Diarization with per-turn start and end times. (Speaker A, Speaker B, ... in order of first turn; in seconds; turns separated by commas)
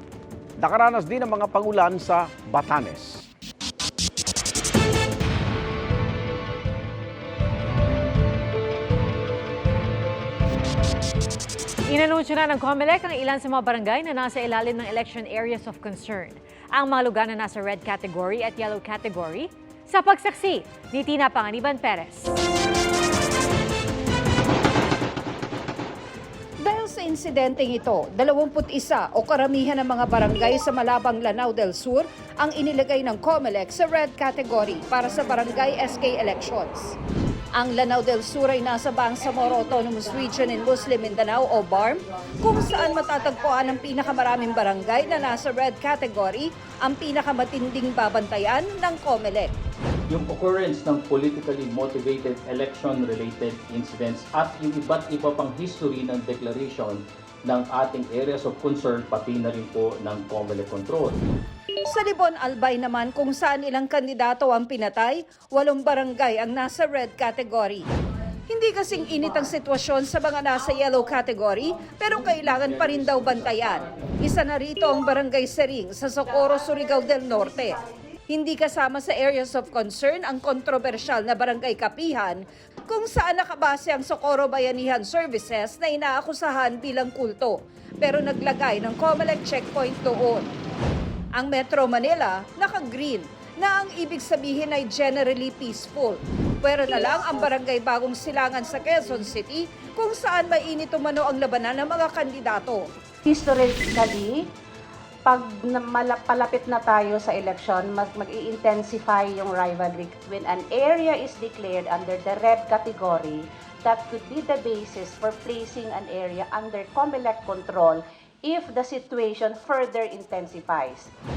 Speaker A: 0.6-3.3, Speaker B: 11.9-22.3, Speaker C: 26.6-36.9, Speaker C: 37.6-49.5, Speaker D: 50.1-61.2, Speaker C: 61.9-67.8, Speaker C: 68.5-90.5, Speaker C: 91.3-102.8, Speaker E: 103.2-104.5, Speaker E: 105.2-121.1